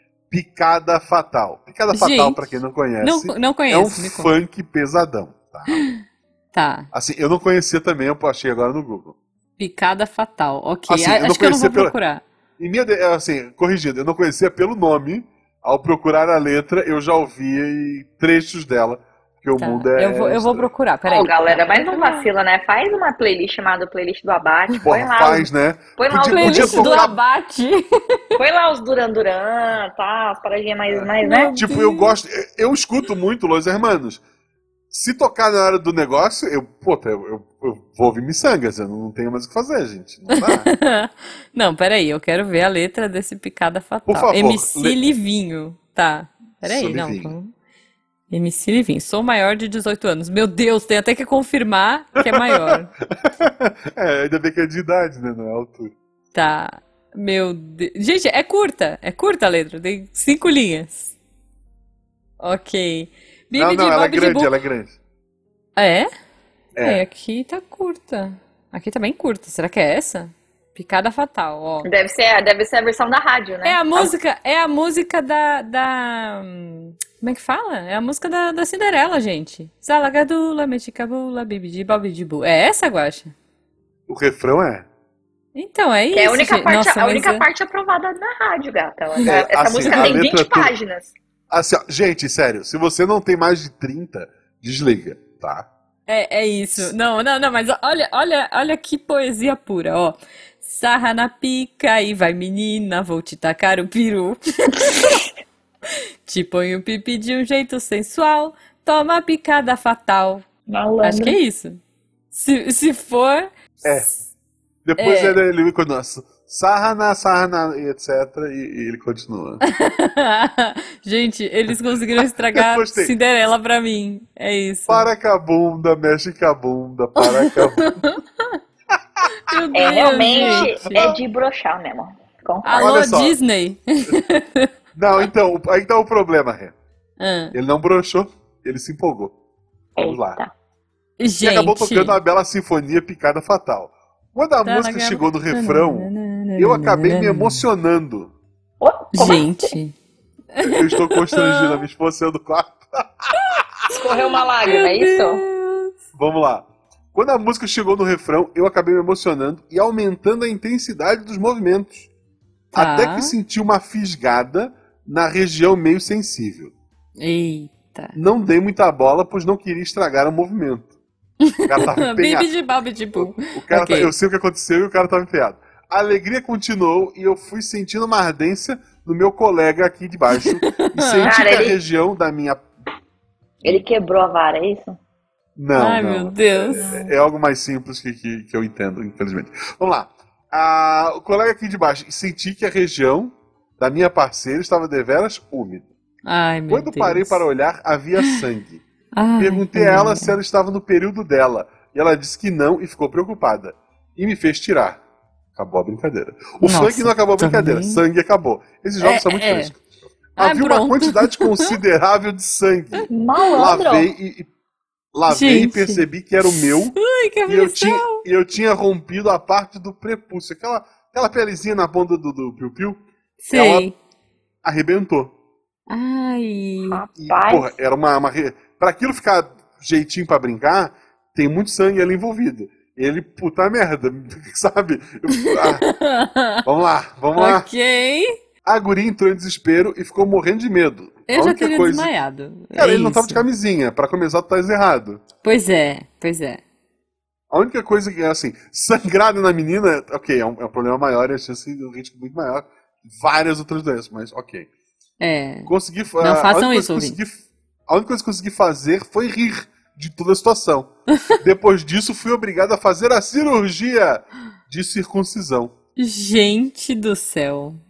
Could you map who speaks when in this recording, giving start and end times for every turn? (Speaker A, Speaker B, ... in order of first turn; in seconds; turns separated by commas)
Speaker A: 0.3-5.9, Speaker B: 1.9-2.5, Speaker B: 3.0-4.3, Speaker B: 6.5-6.9, Speaker A: 6.9-9.2, Speaker B: 9.6-12.2, Speaker A: 10.9-11.9, Speaker A: 12.6-20.7, Speaker B: 19.6-22.3, Speaker C: 21.1-27.1, Speaker A: 24.8-27.1, Speaker B: 26.3-27.8, Speaker C: 28.4-31.6, Speaker A: 30.9-34.2, Speaker B: 31.2-32.1, Speaker A: 34.9-40.7, Speaker B: 40.3-47.5, Speaker A: 44.1-45.0, Speaker A: 46.6-47.4, Speaker B: 48.3-52.9, Speaker A: 52.2-56.0, Speaker B: 56.3-61.1, Speaker B: 62.4-64.5, Speaker A: 63.6-65.0, Speaker B: 65.8-66.1, Speaker A: 66.8-67.0, Speaker B: 66.8-71.9, Speaker C: 71.8-74.1, Speaker B: 73.6-83.3, Speaker A: 84.1-84.9, Speaker B: 85.5-87.4, Speaker C: 86.1-91.1, Speaker A: 89.3-90.7, Speaker B: 89.9-90.2, Speaker A: 91.5-95.7, Speaker B: 96.1-105.2, Speaker B: 106.3-110.5, Speaker C: 110.7-111.4, Speaker B: 111.0-111.8, Speaker B: 112.3-114.2, Speaker A: 113.8-114.1, Speaker A: 114.8-119.6, Speaker B: 115.0-115.4, Speaker B: 119.7-125.1, Speaker A: 122.5-123.1, Speaker A: 124.9-128.0, Speaker B: 127.2-128.6, Speaker B: 129.5-131.1, Speaker C: 129.7-133.0, Speaker A: 130.3-131.2, Speaker B: 132.7-134.7, Speaker A: 132.8-133.4, Speaker A: 134.9-136.8, Speaker B: 137.2-137.6, Speaker A: 137.5-139.3, Speaker C: 140.0-140.5, Speaker A: 140.0-140.4, Speaker B: 141.2-142.2, Speaker A: 141.4-148.3, Speaker B: 144.7-147.7, Speaker C: 148.8-149.7, Speaker B: 149.1-150.0, Speaker B: 150.6-151.8, Speaker A: 150.6-153.7, Speaker C: 153.9-155.4, Speaker B: 153.9-156.0, Speaker A: 156.1-162.1, Speaker B: 162.7-163.3, Speaker A: 162.7-166.7, Speaker B: 167.2-168.2, Speaker A: 168.2-170.9, Speaker B: 171.4-174.1, Speaker A: 171.7-172.5, Speaker A: 173.2-182.6, Speaker B: 180.3-181.3, Speaker C: 181.2-181.8, Speaker C: 183.6-185.0, Speaker A: 185.6-195.9, Speaker B: 185.8-187.1, Speaker B: 196.3-197.4, Speaker A: 196.7-198.8, Speaker B: 199.2-200.4, Speaker A: 199.4-205.0, Speaker A: 205.6-209.8, Speaker B: 206.6-208.0, Speaker B: 209.0-209.8, Speaker A: 210.3-214.5, Speaker B: 210.4-211.8, Speaker C: 213.1-214.1, Speaker A: 215.1-223.9, Speaker B: 215.3-218.2, Speaker B: 223.4-223.9, Speaker A: 224.6-225.3, Speaker B: 225.9-227.0, Speaker C: 226.9-227.7, Speaker A: 227.2-235.9, Speaker B: 235.4-236.7, Speaker A: 236.7-237.7, Speaker B: 237.4-238.4, Speaker A: 238.6-242.1, Speaker B: 241.3-243.4, Speaker A: 242.7-245.2, Speaker B: 245.4-246.6, Speaker A: 247.5-254.7, Speaker B: 255.2-257.2, Speaker A: 255.7-265.8, Speaker B: 266.0-267.8